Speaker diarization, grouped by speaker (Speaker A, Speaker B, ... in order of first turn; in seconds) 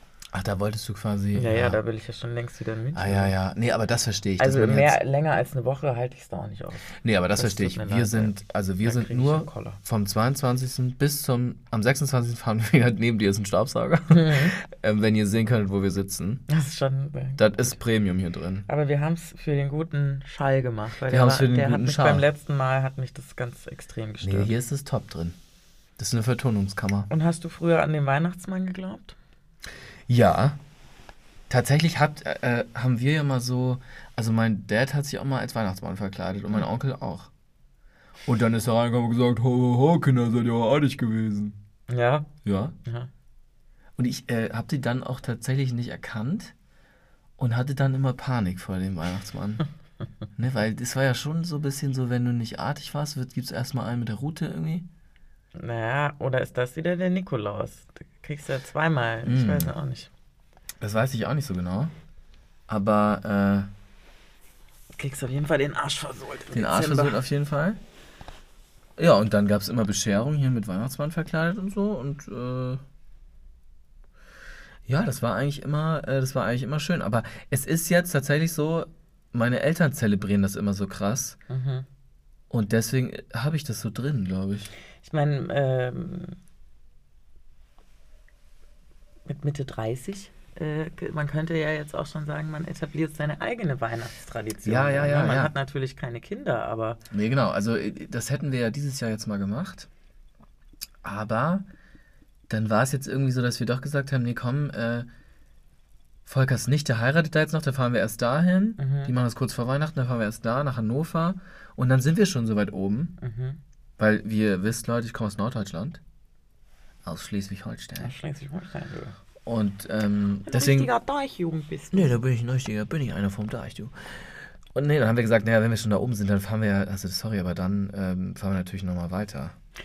Speaker A: 0.3-1.8, 2.9-5.0, 7.0-16.4, 17.4-18.6, 21.1-22.3, 24.2-25.4, 26.0-27.1, 30.1-30.6, 31.5-37.3, 38.2-41.6, 42.4-42.7, 44.0-46.5, 47.4-49.6, 50.4-54.9, 59.2-59.7, 60.8-61.9, 62.7-63.7, 66.5-67.8, 69.0-72.8, 74.8-81.4, 82.5-84.7, 94.6-95.5, 97.1-99.9, 101.0-101.7, 102.5-105.1, 106.2-113.1, 114.0-116.0, 117.0-118.1, 119.4-120.9, 121.9-129.5
Speaker B: 1.3-3.3, 4.4-9.8, 14.1-14.6, 16.5-17.8, 18.6-24.5, 27.1-29.2, 41.9-42.3, 42.8-43.1, 55.5-60.1, 65.0-67.2, 81.5-81.8, 85.0-86.4, 89.2-97.0, 108.8-109.1, 113.2-113.6, 118.0-119.2, 120.4-122.1